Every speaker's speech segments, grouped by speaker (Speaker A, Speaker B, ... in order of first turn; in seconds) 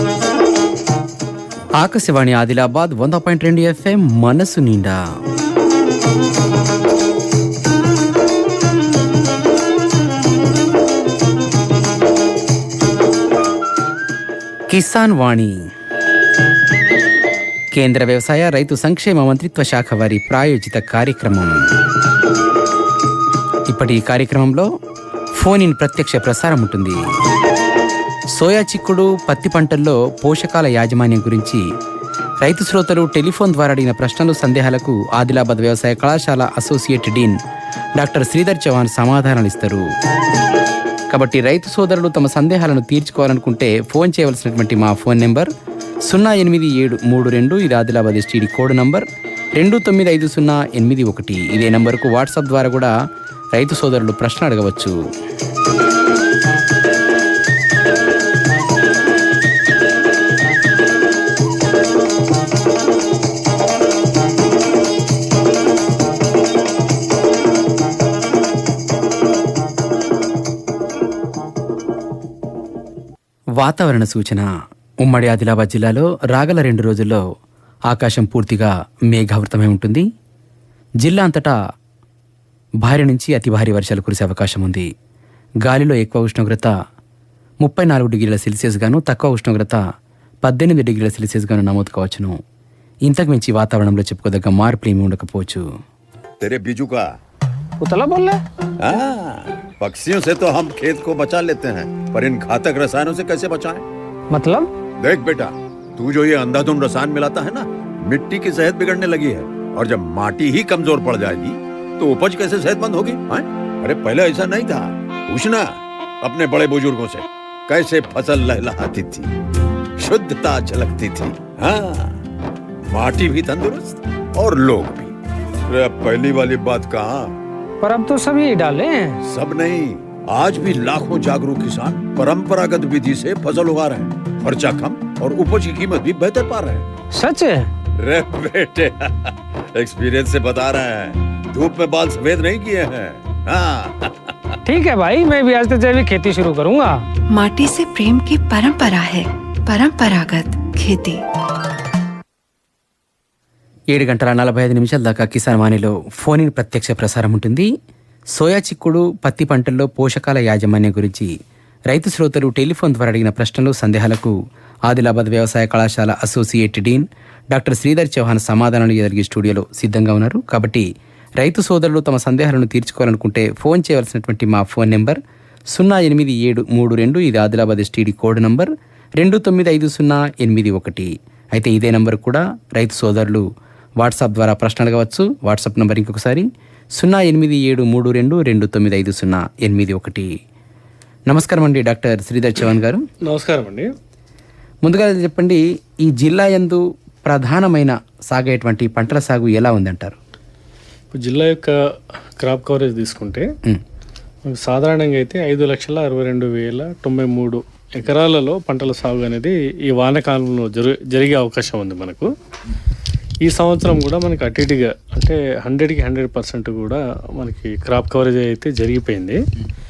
Speaker A: 1.8-5.0, 14.7-15.6, 17.7-21.6, 23.7-24.7, 25.4-27.0, 28.4-31.6, 32.4-37.4, 38.0-39.8, 41.1-45.5, 46.1-52.9, 53.5-55.0, 73.6-74.5, 75.0-77.2, 77.9-80.1, 81.0-81.5, 82.8-84.9, 85.6-86.7, 87.6-89.8, 90.4-92.4, 93.1-95.7, 153.9-157.7, 158.3-161.3, 161.9-164.3, 164.9-170.9, 171.4-175.2, 175.7-183.5, 184.0-190.3, 191.3-193.1, 194.8-200.2
Speaker B: 96.4-97.1, 98.8-103.8, 105.0-119.3, 120.0-122.1, 122.9-125.1, 125.7-127.3, 129.3-136.8, 138.0-144.3
Speaker C: 97.8-98.4, 104.3-104.7, 127.8-129.2, 137.2-137.7, 144.7-147.0
Speaker D: 147.3-151.2
Speaker E: 193.3-193.9, 201.2-201.8, 202.4-203.5, 204.5-212.3, 213.4-219.4